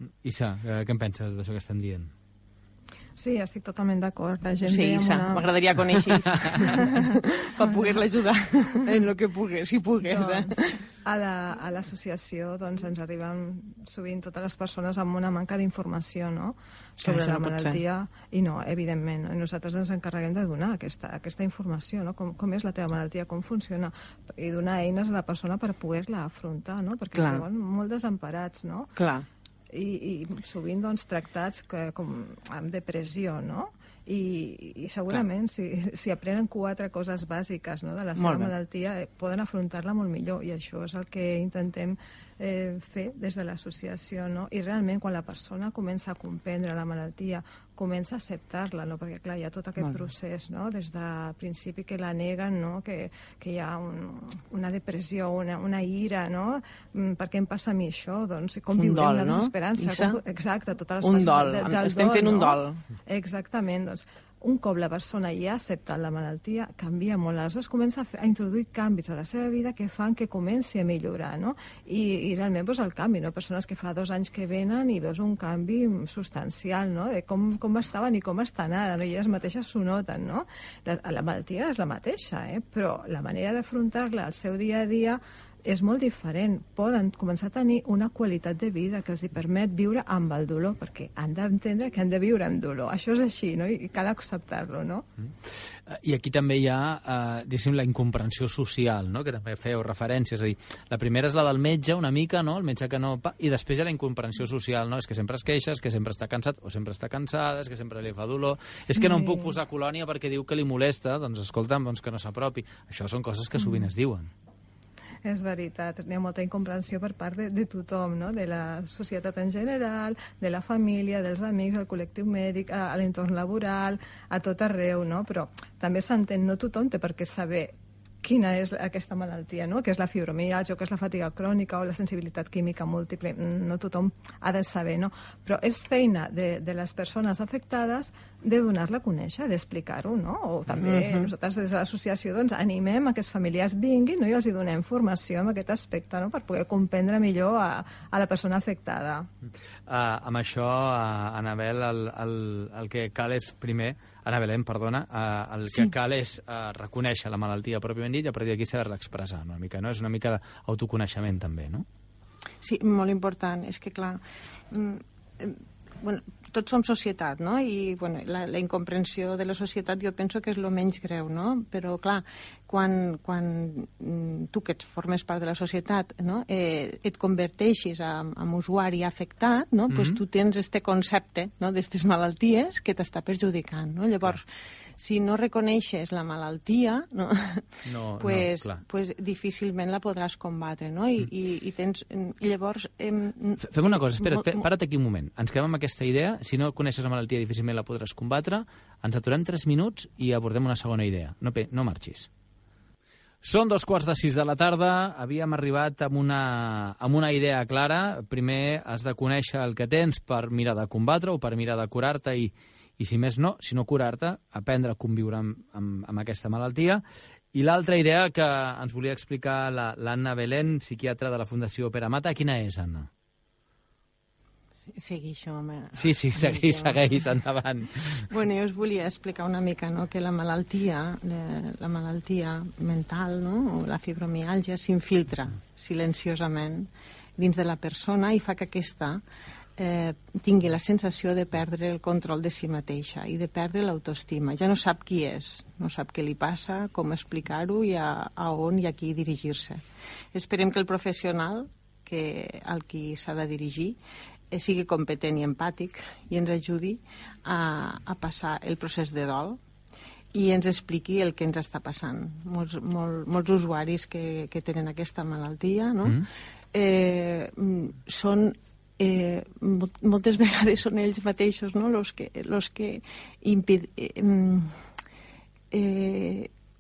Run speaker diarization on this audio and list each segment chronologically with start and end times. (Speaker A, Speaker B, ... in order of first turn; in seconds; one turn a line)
Speaker A: 0.2-2.1
Speaker B: 3.2-5.5
Speaker C: 4.7-10.8
Speaker B: 6.5-7.0
Speaker B: 10.1-28.9
Speaker C: 17.0-17.8
Speaker C: 27.1-27.4
Speaker C: 29.0-29.3
Speaker B: 29.7-95.0
Speaker C: 38.2-38.5
Speaker C: 58.8-60.2
Speaker C: 61.0-62.8
Speaker A: 95.5-114.3
Speaker B: 109.0-109.5
Speaker B: 115.2-149.3
Speaker C: 140.8-141.3
Speaker A: 149.9-161.8
Speaker C: 162.6-184.5
Speaker A: 179.9-180.2
Speaker C: 185.0-194.7
Speaker A: 187.9-188.8
Speaker A: 193.6-202.3
Speaker A: 203.4-217.0
Speaker A: 217.5-223.1
Speaker C: 224.8-227.1
Speaker A: 226.0-228.3
Speaker C: 228.1-239.2
Speaker C: 239.8-254.0
Speaker C: 254.5-259.6
Speaker C: 260.3-274.9
Speaker C: 275.7-276.5